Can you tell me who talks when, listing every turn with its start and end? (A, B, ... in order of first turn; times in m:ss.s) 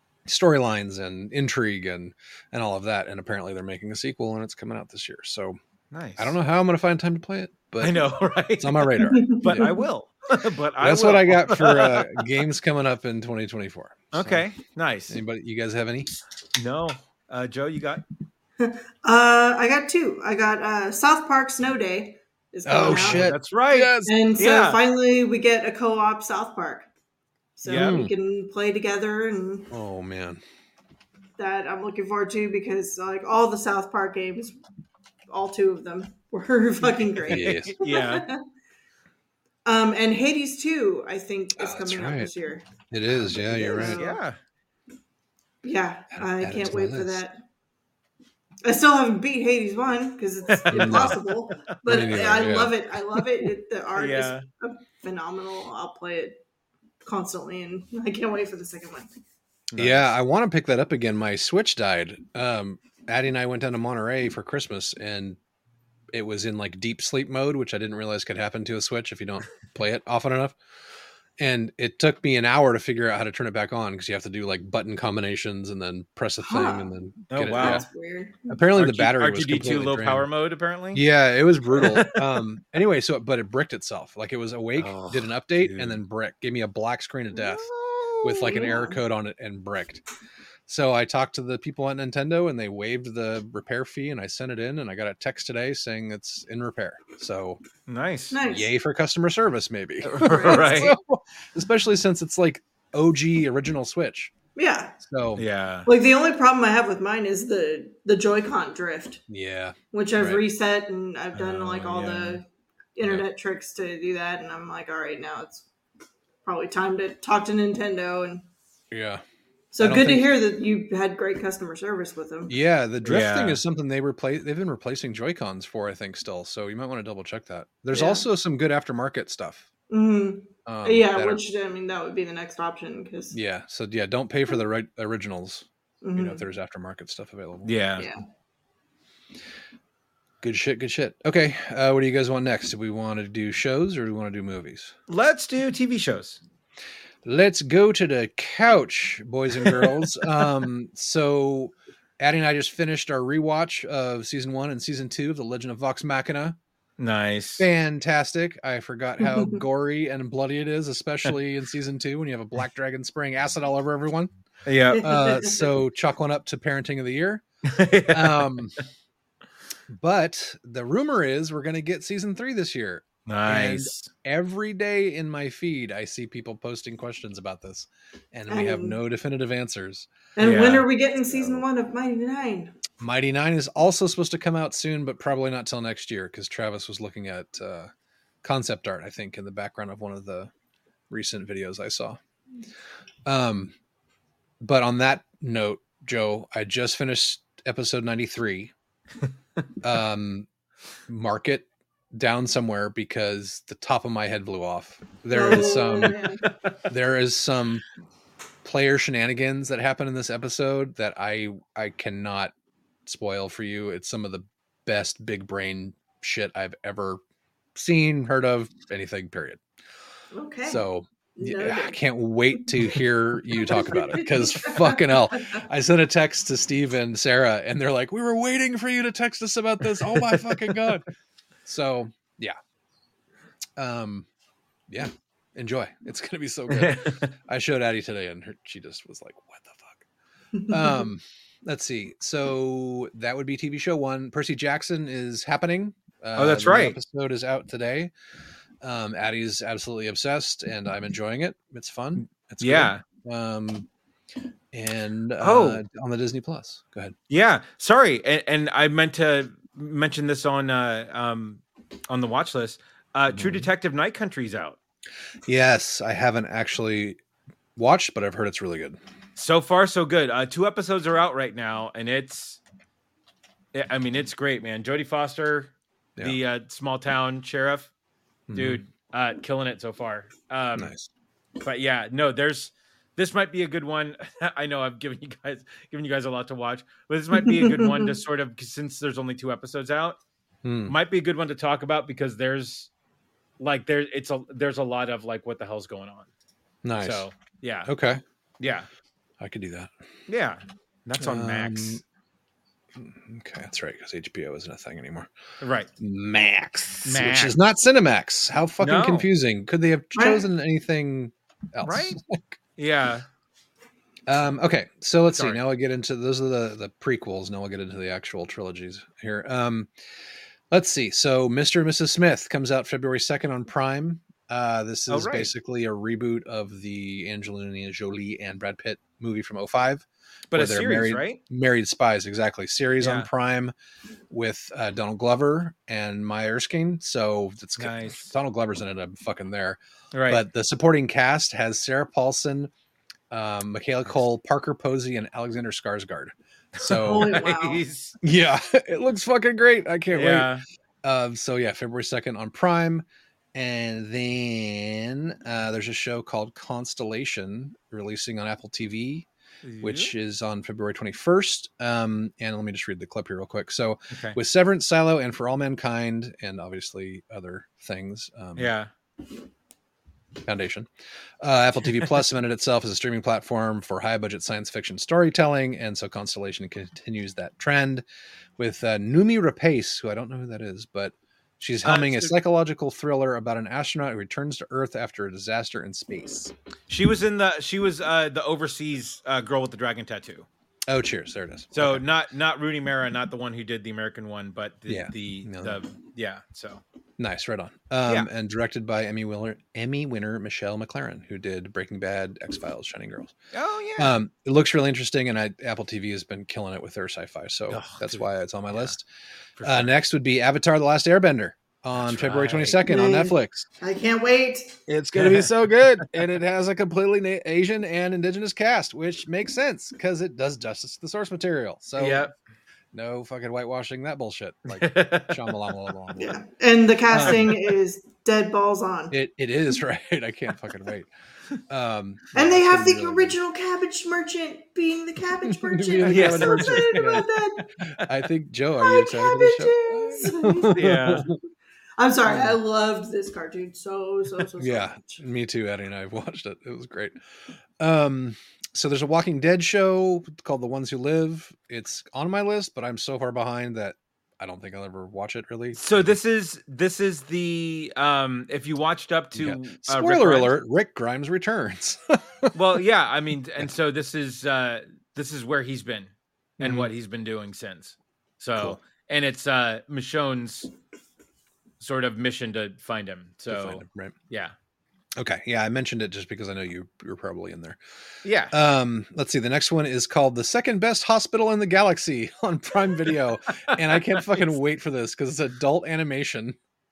0:00.2-0:05.6 A
0:05.9-0:06.3 B
0:06.2-0:08.0 A
0:07.8-0:12.4 B
0:08.6-0:09.8 A
0:09.1-0:09.8 C
0:10.8-0:14.4 A
0:14.1-0:15.2 B
0:15.1-0:16.1 A
0:16.5-0:18.0 B
0:18.6-0:23.3 C
0:22.6-0:24.1 A
0:22.8-0:24.8 B
0:24.0-0:26.9 C
0:27.6-0:29.7 C
0:27.6-0:28.0 B
0:27.7-0:28.1 A
0:29.7-0:30.4 A
0:31.4-0:34.6 C
0:35.3-0:38.4 C
0:37.1-0:38.3 B
0:37.3-0:37.8 A
0:39.6-0:42.7 C
0:41.6-0:42.3 A
0:42.9-0:44.0 A
0:43.2-0:44.2 C
0:43.8-0:44.4 B
0:45.6-0:47.4 C
0:46.1-0:47.2 A
0:48.6-0:56.4 C
0:50.5-0:51.6 B
0:50.7-0:51.2 A
0:51.8-0:52.7 A
0:54.0-0:54.4 B
0:57.0-0:59.1 C
0:59.7-1:00.1 B
0:59.8-1:05.4 A
1:06.1-1:10.6 A
1:11.4-1:17.8 A
1:16.4-1:16.9 C
1:17.3-1:17.8 B
1:17.5-1:18.6 C
1:18.5-1:20.3 A
1:18.8-1:21.0 B
1:20.9-1:27.7 A
1:21.7-1:22.2 B
1:24.8-1:26.0 B
1:27.4-1:28.5 B
1:28.2-1:30.0 A
1:28.4-1:29.0 C
1:30.7-1:37.6 A
1:37.9-1:38.4 B
1:38.3-1:38.7 C
1:38.4-1:44.3 A
1:40.0-1:40.9 B
1:40.2-1:40.7 C
1:44.6-1:44.9 C
1:45.0-1:45.4 A
1:45.4-1:45.9 B
1:45.8-1:49.2 C
1:49.3-1:50.4 A
1:49.9-1:52.4 C
1:51.3-1:52.4 B
1:53.0-1:55.6 C
1:56.4-1:58.4 C
1:58.9-1:59.2 A
1:59.7-2:02.5 C
1:59.8-2:00.3 A
2:02.5-2:09.7 A
2:03.0-2:03.6 B
2:07.9-2:08.2 C
2:09.9-2:13.4 C
2:10.6-2:11.4 A
2:13.3-2:17.7 A
2:16.0-2:16.4 C
2:17.6-2:18.1 B
2:18.0-2:18.2 C
2:20.4-2:24.9 A
2:25.1-2:26.4 B
2:27.2-2:36.6 A
2:29.6-2:30.0 B
2:37.0-2:37.6 B
2:37.6-2:44.3 A
2:39.2-2:39.6 C
2:44.6-2:45.1 B
2:45.0-2:47.4 A
2:45.0-2:45.6 C
2:47.6-2:48.6 B
2:48.1-2:48.8 A
2:49.9-3:00.1 A
2:53.2-2:54.1 B
2:58.5-2:59.0 C
3:00.4-3:02.7 C
3:00.4-3:00.9 B
3:01.3-3:01.6 A
3:03.0-3:07.9 A
3:08.4-3:10.5 A
3:11.1-3:12.2 A
3:13.2-3:13.7 A
3:14.6-3:18.7 A
3:19.8-3:20.5 A
3:21.1-3:26.3 A
3:25.3-3:26.4 C
3:26.9-3:27.8 A
3:28.6-3:32.5 A
3:33.0-3:37.2 A
3:37.7-3:39.6 A
3:40.3-3:42.0 C
3:40.6-3:51.0 A
3:43.5-3:45.6 C
3:50.0-3:50.9 B
3:51.6-3:52.6 A
3:53.8-3:54.3 A
3:54.9-4:00.0 A
3:56.7-3:57.3 B
4:00.6-4:01.0 C
4:00.7-4:08.1 A
4:06.4-4:07.0 B
4:08.8-4:13.9 A
4:12.6-4:13.0 B
4:14.7-4:17.1 A
4:15.4-4:15.8 B
4:17.3-4:24.8 B
4:23.3-4:23.7 A
4:25.5-4:27.2 A
4:27.8-4:29.0 A
4:29.4-4:32.6 B
4:33.7-4:37.9 B
4:38.5-4:38.8 A
4:38.5-4:40.9 B
4:40.8-4:41.1 A
4:41.6-4:50.2 B
4:47.4-4:48.1 C
4:50.6-4:51.0 A
4:50.9-4:52.9 B
4:53.6-4:56.3 B
4:56.8-4:57.2 A
4:57.0-4:57.9 B
4:57.8-4:58.2 A
4:58.6-4:58.9 B
4:59.4-4:59.9 A
5:00.3-5:02.0 B
5:01.2-5:02.0 A
5:03.0-5:05.3 A
5:05.6-5:05.9 B
5:06.0-5:12.6 A
5:07.0-5:07.6 B
5:08.8-5:09.3 B
5:10.1-5:10.5 C
5:11.8-5:12.2 B
5:12.8-5:13.2 B
5:14.3-5:19.9 A
5:15.3-5:15.6 B
5:20.7-5:33.7 A
5:25.1-5:25.5 B
5:30.5-5:31.4 B
5:33.0-5:33.3 B
5:34.3-5:42.7 A
5:37.8-5:38.3 B
5:40.1-5:40.4 B
5:43.3-5:47.4 A
5:46.8-5:48.2 B
5:46.9-5:47.8 C
5:48.2-5:50.5 A
5:50.1-5:50.6 B
5:51.0-5:59.3 A
5:59.6-6:00.1 B
5:59.8-6:08.7 A
6:04.1-6:04.4 B
6:08.6-6:08.9 B
6:10.4-6:10.9 A
6:11.4-6:18.0 A
6:18.6-6:26.5 A
6:21.8-6:22.3 B
6:26.9-6:30.5 B
6:30.9-6:32.0 A
6:31.7-6:36.8 B
6:34.9-6:35.8 A
6:37.2-6:43.3 A
6:43.5-6:44.2 B
6:44.0-6:49.0 A
6:47.7-6:48.9 B
6:49.6-6:49.9 B
6:49.6-6:53.7 A
6:51.9-6:52.8 B
6:52.9-6:54.8 C
6:54.9-7:02.3 A
6:55.1-6:56.1 B
7:02.0-7:02.3 B
7:02.9-7:06.4 A
7:04.7-7:05.8 B
7:06.2-7:09.2 C
7:07.1-7:07.6 A
7:07.2-7:07.5 B
7:09.1-7:11.1 A
7:11.7-7:13.4 A
7:12.3-7:17.6 C
7:15.4-7:17.3 A
7:16.0-7:17.2 B
7:17.8-7:21.4 A
7:18.8-7:20.8 C
7:20.7-7:21.3 B
7:22.0-7:25.2 C
7:22.2-7:22.6 A
7:24.6-7:27.2 A
7:27.8-7:36.2 A
7:35.7-7:40.6 B
7:39.3-7:42.6 A
7:42.5-7:50.7 B
7:46.6-7:46.9 A
7:51.8-7:54.5 B
7:53.5-7:54.1 A
7:55.2-7:57.8 A
7:58.2-7:58.5 B
7:58.5-8:06.6 A